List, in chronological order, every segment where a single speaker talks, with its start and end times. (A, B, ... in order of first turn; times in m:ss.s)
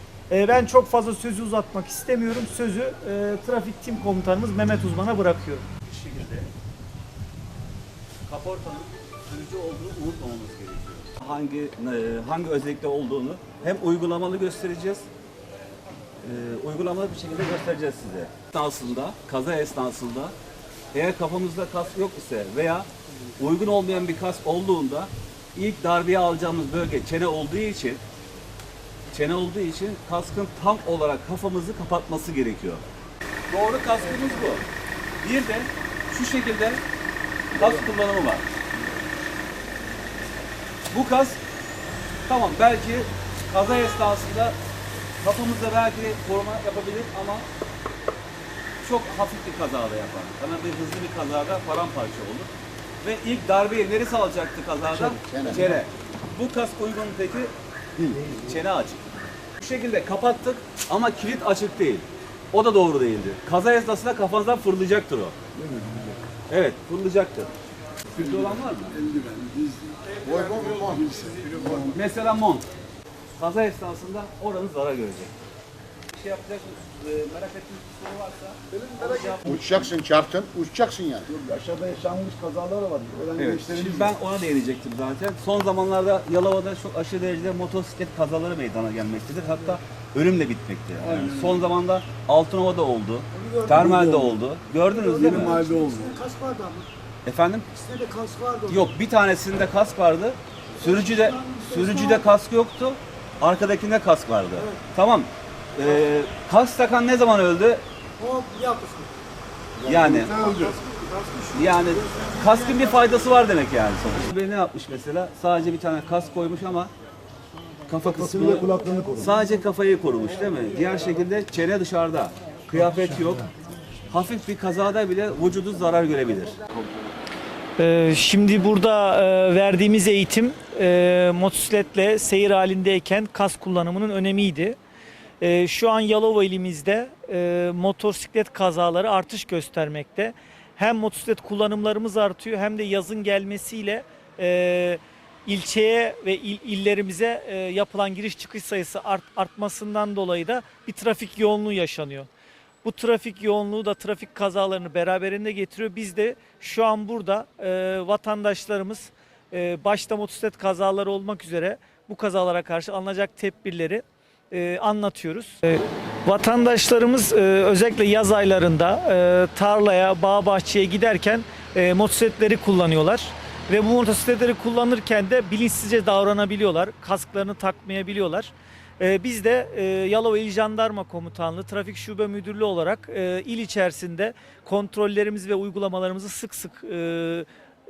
0:00.3-0:05.6 A
0:05.8-0:06.5 B
0:08.3-0:15.0 B
0:16.2-0:20.3 B
0:20.9-0:22.9 B
0:23.4-0:28.0 B
0:29.1-0:32.9 B
0:33.5-0:34.6 B
0:35.2-0:36.8 B
0:37.5-0:38.5 B
0:40.9-0:41.4 B
0:42.3-0:44.6 B
0:45.2-0:47.4 B
0:48.8-0:52.5 B
0:53.0-0:59.0 B
0:54.9-0:55.8 C
0:59.6-1:05.4 B
1:05.6-1:06.1 D
1:06.5-1:07.5 B
1:08.1-1:09.0 B
1:08.2-1:10.0 D
1:10.2-1:11.2 C
1:10.8-1:12.0 D
1:11.9-1:12.7 B
1:13.3-1:15.3 B
1:16.1-1:19.9 B
1:18.7-1:19.5 D
1:19.4-1:21.3 C
1:21.3-1:24.1 D
1:23.3-1:35.6 B
1:31.0-1:31.6 D
1:33.4-1:34.4 D
1:35.0-1:36.8 E
1:35.2-1:36.2 D
1:37.2-1:37.7 B
1:37.7-1:38.8 E
1:38.7-1:47.8 B
1:41.2-1:42.2 E
1:48.2-1:49.1 E
1:49.8-1:50.5 B
1:49.8-1:50.8 D
1:50.4-1:52.4 E
1:51.5-1:56.9 B
1:57.9-2:03.5 B
1:58.2-1:59.3 D
2:04.1-2:06.6 B
2:07.8-2:14.8 A
2:15.4-2:32.3 A
2:32.8-3:07.5 A